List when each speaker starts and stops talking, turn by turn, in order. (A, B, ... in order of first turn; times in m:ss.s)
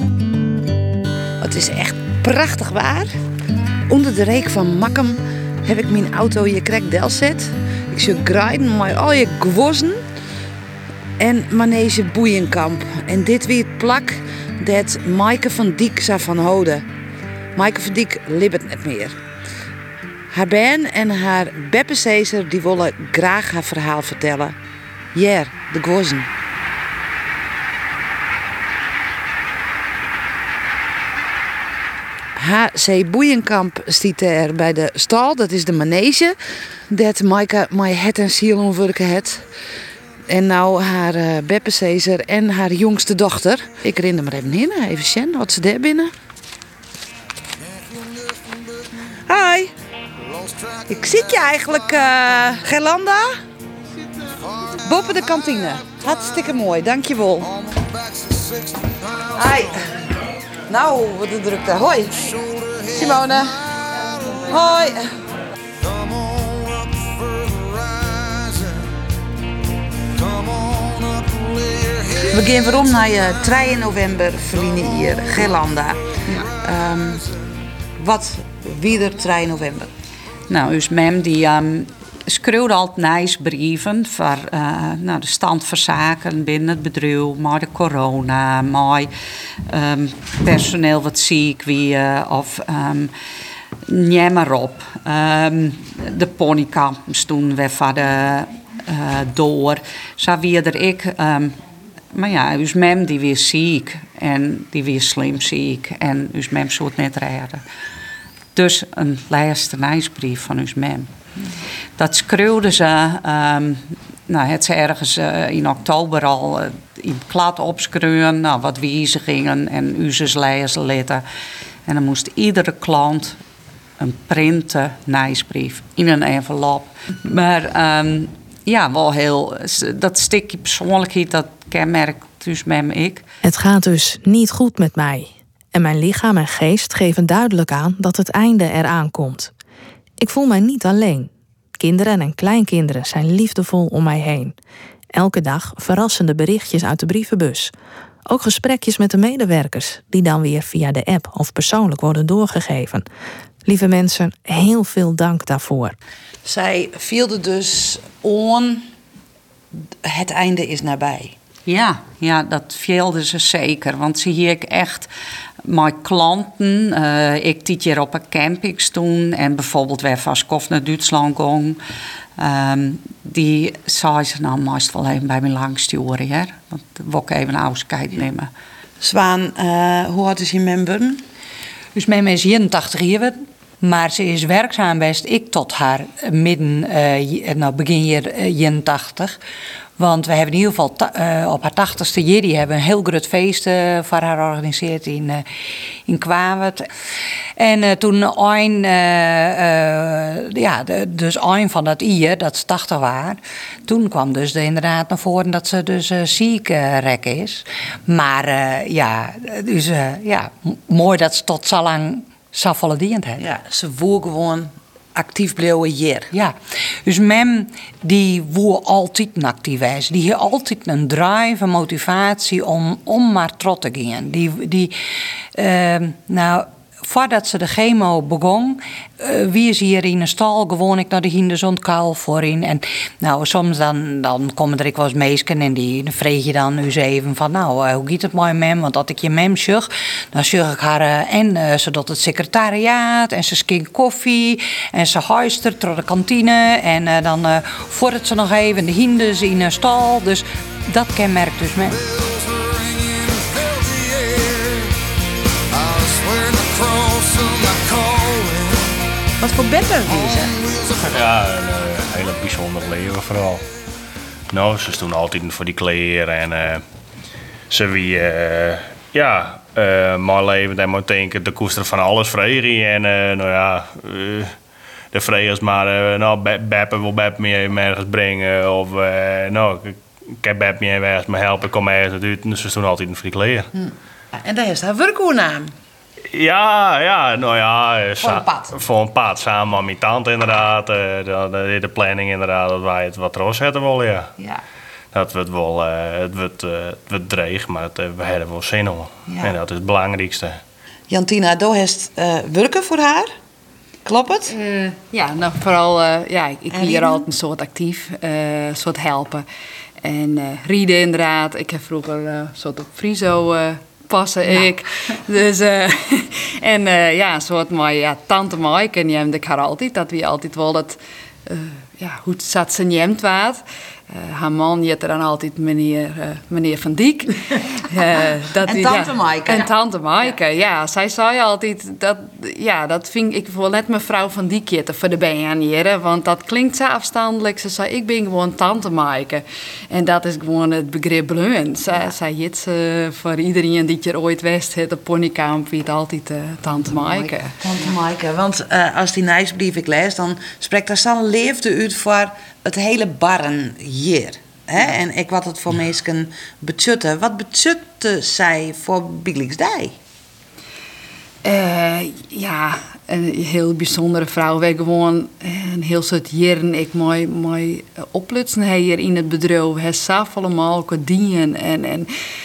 0:01.4-0:03.1 A
0:03.9-0:10.0 A
0:11.2-0:16.9 A
0:17.6-0:19.2 A
0:20.3-0:24.6 A
0:25.1-0:26.3 A
0:32.4-0:36.4 A
0:36.9-0:39.5 A
0:40.3-0:46.1 A
0:49.3-0:49.7 A
0:50.9-0:53.4 A
0:54.8-0:57.6 A
0:59.2-1:00.1 A
1:00.7-1:03.8 A
1:04.3-1:05.2 A
1:12.1-1:17.3 A
1:18.0-1:19.9 A
1:20.5-1:29.1 B
1:29.6-1:33.1 B
1:33.9-1:41.6 B
1:42.1-1:47.6 B
1:48.5-1:51.2 B
1:52.0-2:01.2 B
2:01.9-2:03.4 B
2:04.0-2:13.2 B
2:13.4-2:19.5 C
2:20.2-2:24.5 C
2:25.1-2:27.7 C
2:28.3-2:33.0 C
2:33.6-2:36.0 C
2:36.4-2:38.9 A
2:39.7-2:41.4 A
2:41.7-2:45.1 B
2:45.6-2:51.8 B
2:52.4-2:58.5 B
2:59.0-3:01.2 A
3:02.0-3:09.4 D
3:10.0-3:15.4 D
3:16.1-3:16.9 D
3:17.6-3:33.4 D
3:33.4-3:36.3 A
3:36.3-3:45.0 D
3:45.5-4:12.0 D
4:18.0-4:18.7 A
4:19.4-4:20.7 A
4:21.0-4:23.6 E
4:24.5-4:26.8 E
4:27.7-4:34.5 E
4:35.1-4:43.7 E
4:43.8-4:45.7 A
4:46.3-4:54.3 E
4:48.2-4:48.7 A
4:55.1-5:00.6 E
4:59.3-4:59.6 A
5:01.1-5:03.3 A
5:04.1-5:04.5 A
5:04.5-5:09.4 F
5:06.7-5:07.2 A
5:10.0-5:47.6 F
5:28.6-5:29.7 A
5:47.6-6:00.0 A
6:01.4-6:12.1 F